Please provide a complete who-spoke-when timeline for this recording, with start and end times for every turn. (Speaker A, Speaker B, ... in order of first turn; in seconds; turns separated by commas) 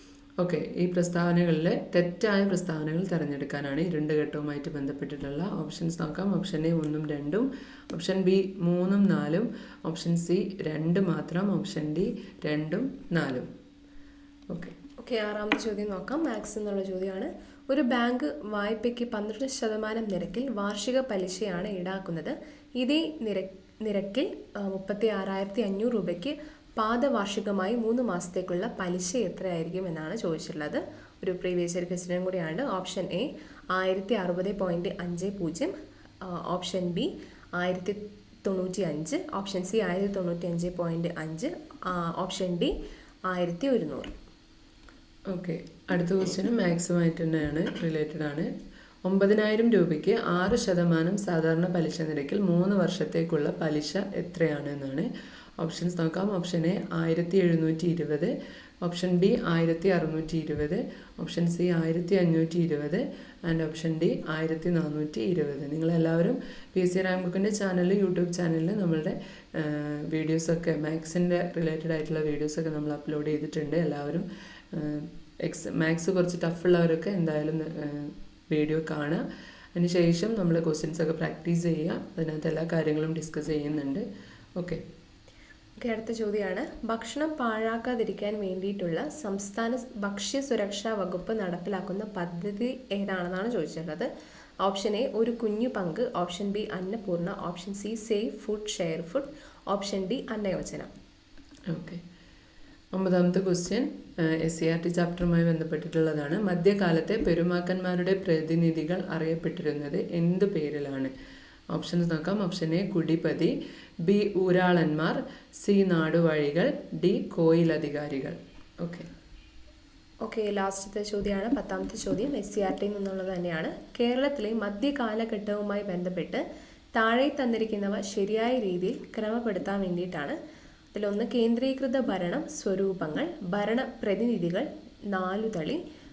Speaker A: 0.4-13.5, Speaker A: 14.5-14.7, Speaker B: 15.0-35.7, Speaker B: 36.2-42.7, Speaker B: 43.3-44.1, Speaker A: 45.3-48.5, Speaker A: 49.0-55.1, Speaker A: 55.6-79.2, Speaker A: 79.8-84.0, Speaker B: 85.8-94.1, Speaker B: 94.6-100.9, Speaker A: 101.7-102.0, Speaker A: 102.9-111.1, Speaker A: 111.7-113.5, Speaker A: 114.0-119.1, Speaker B: 120.2-126.4, Speaker B: 126.9-130.3, Speaker B: 130.9-135.8